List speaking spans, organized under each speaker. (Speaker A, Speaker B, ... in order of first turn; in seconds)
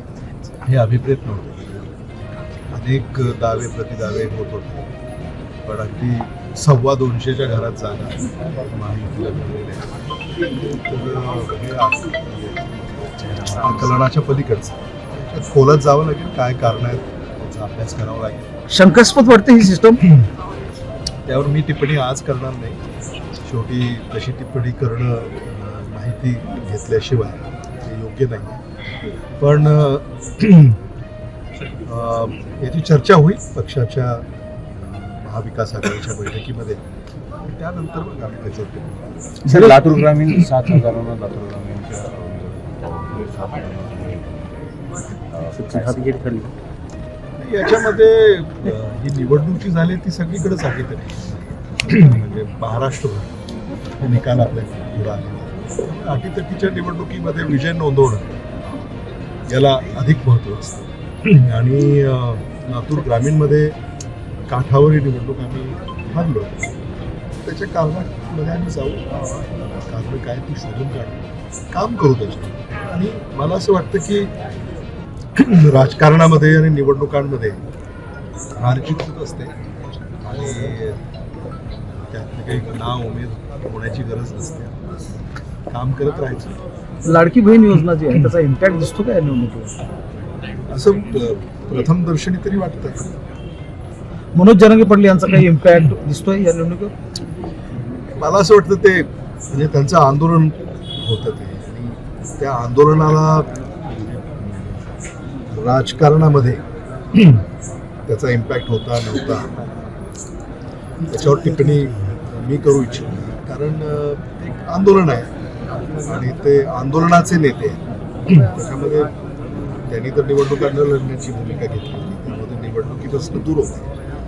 Speaker A: 0.6-1.9, 2.7-4.8, 5.6-9.9, 10.6-12.6, 13.4-18.5, 21.2-22.8, 23.4-28.6, 29.4-30.8, 31.9-36.8, 37.4-39.3, 47.4-53.4, 54.0-58.3, 59.5-63.8, 64.5-66.7, 67.4-74.3, 75.3-77.6, 78.5-79.5, 80.2-81.0, 81.9-85.1, 85.7-86.6, 90.7-93.0, 98.1-103.5, 104.3-104.7, 105.5-106.6, 108.1-109.5, 111.0-115.3, 116.0-119.1, 119.9-123.9
Speaker B: 13.3-13.7, 39.4-44.5, 45.3-46.5
Speaker C: 18.7-20.0, 39.5-39.8, 87.0-89.7, 94.3-96.9